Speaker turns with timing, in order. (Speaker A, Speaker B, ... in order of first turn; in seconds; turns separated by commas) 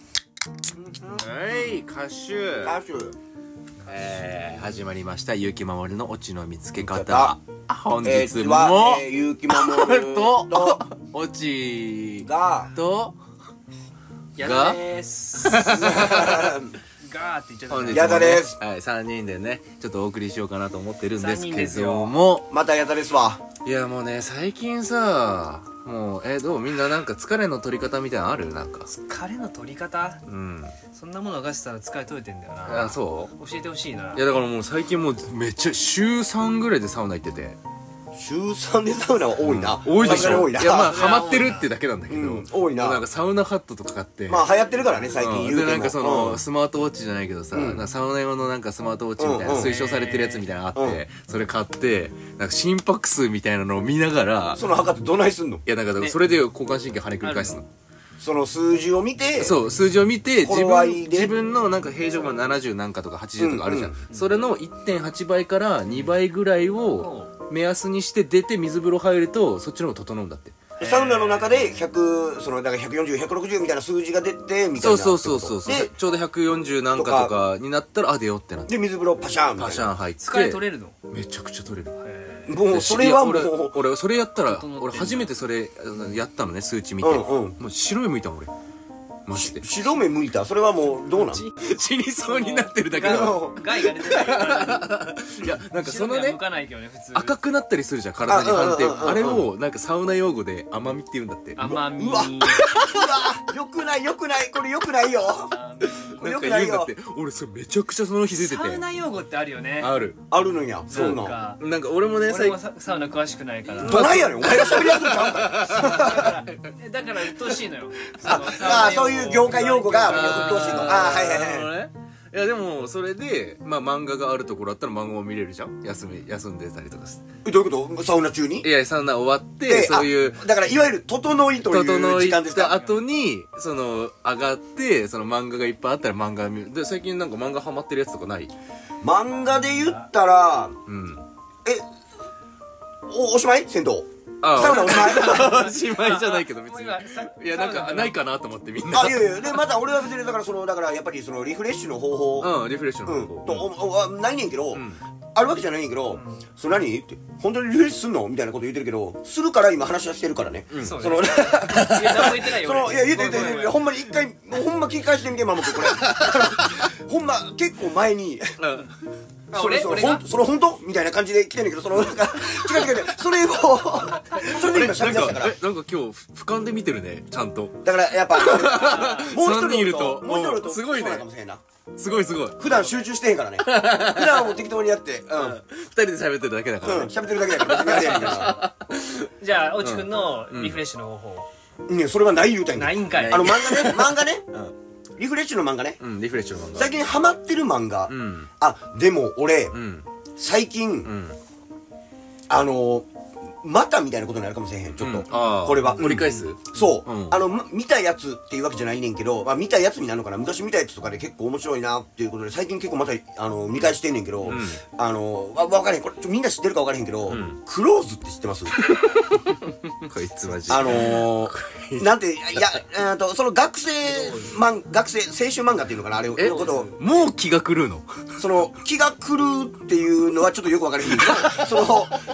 Speaker A: 0.7-1.3, Speaker B: 1.1-2.8, Speaker A: 2.6-3.1, Speaker B: 3.9-13.2, Speaker A: 6.8-7.4, Speaker A: 8.0-10.8, Speaker A: 12.2-12.7, Speaker C: 14.4-16.4, Speaker B: 14.4-14.8, Speaker B: 15.4-16.5, Speaker A: 15.8-16.7, Speaker C: 17.0-18.4, Speaker B: 17.7-22.5, Speaker A: 17.9-18.6, Speaker C: 21.2-22.1, Speaker A: 22.5-23.4, Speaker B: 23.6-28.9, Speaker C: 28.9-30.2, Speaker B: 30.3-30.8, Speaker C: 30.9-34.2, Speaker B: 32.7-33.3, Speaker B: 34.1-37.6, Speaker A: 38.1-41.0, Speaker B: 39.4-44.5, Speaker C: 40.0-41.7, Speaker A: 42.1-43.0, Speaker A: 44.3-46.4, Speaker B: 45.2-54.6, Speaker A: 47.5-47.8, Speaker A: 49.2-49.8, Speaker C: 49.5-50.5, Speaker A: 50.8-51.0, Speaker A: 54.5-55.6, Speaker B: 55.7-57.7, Speaker C: 57.2-57.6, Speaker A: 58.2-59.6, Speaker B: 59.4-70.6, Speaker A: 60.4-61.4, Speaker A: 63.4-64.0, Speaker C: 64.1-64.4, Speaker C: 67.0-67.3, Speaker C: 70.8-71.8, Speaker A: 70.8-75.9, Speaker B: 74.8-78.7, Speaker A: 77.0-77.3, Speaker A: 78.7-79.9, Speaker B: 79.6-81.9, Speaker C: 80.2-81.0, Speaker C: 82.0-82.6, Speaker A: 82.5-83.8, Speaker B: 82.7-88.5, Speaker C: 84.5-85.3, Speaker A: 87.0-87.6, Speaker B: 89.3-89.6, Speaker A: 89.3-91.5, Speaker C: 91.2-94.9, Speaker B: 91.6-96.4, Speaker A: 93.0-93.7, Speaker C: 95.8-97.4, Speaker B: 97.1-101.6, Speaker A: 98.3-99.5, Speaker C: 101.6-102.7, Speaker A: 101.6-105.6, Speaker B: 102.6-103.2, Speaker C: 105.5-106.3, Speaker A: 106.2-106.9, Speaker B: 106.2-108.8, Speaker C: 108.4-109.9, Speaker B: 109.8-110.2, Speaker A: 110.3-111.4, Speaker C: 110.9-111.6, Speaker B: 110.9-112.6, Speaker C: 112.2-114.2, Speaker B: 113.7-116.5, Speaker A: 113.8-116.3, Speaker C: 115.7-121.0, Speaker A: 118.2-121.7, Speaker B: 120.0-127.2, Speaker A: 127.4-128.7, Speaker B: 128.6-130.4, Speaker A: 129.7-132.9, Speaker B: 131.6-138.5, Speaker A: 139.0-140.8, Speaker B: 140.9-141.2, Speaker A: 143.1-145.6, Speaker B: 144.4-149.6, Speaker C: 144.6-148.2, Speaker A: 148.9-168.6, Speaker B: 152.4-153.7, Speaker B: 154.7-155.0, Speaker C: 156.1-156.4, Speaker B: 160.7-161.0, Speaker C: 160.8-163.9, Speaker B: 161.7-162.4, Speaker B: 165.8-166.8, Speaker B: 168.6-168.9, Speaker C: 169.5-170.2, Speaker A: 169.5-175.6, Speaker B: 174.3-181.3, Speaker A: 177.8-181.6, Speaker C: 178.7-179.3, Speaker B: 182.0-182.6, Speaker A: 182.6-185.6, Speaker C: 182.6-183.1, Speaker B: 183.6-184.6, Speaker B: 185.3-190.8, Speaker A: 186.8-188.6, Speaker C: 189.4-191.5, Speaker A: 191.9-194.5, Speaker C: 192.8-193.7, Speaker B: 193.1-194.7, Speaker A: 195.2-196.0, Speaker B: 196.0-196.9, Speaker A: 196.8-199.8, Speaker B: 198.1-198.5, Speaker B: 199.7-200.1, Speaker A: 200.4-201.1, Speaker B: 201.1-201.4, Speaker A: 202.5-218.8, Speaker B: 205.0-207.4, Speaker C: 205.9-206.5, Speaker B: 214.5-214.8, Speaker B: 217.3-217.6, Speaker B: 218.8-219.4, Speaker B: 220.1-222.8, Speaker A: 220.7-226.9, Speaker C: 224.1-224.6, Speaker B: 226.4-228.1, Speaker C: 226.4-227.1, Speaker A: 228.4-232.2, Speaker B: 231.2-232.2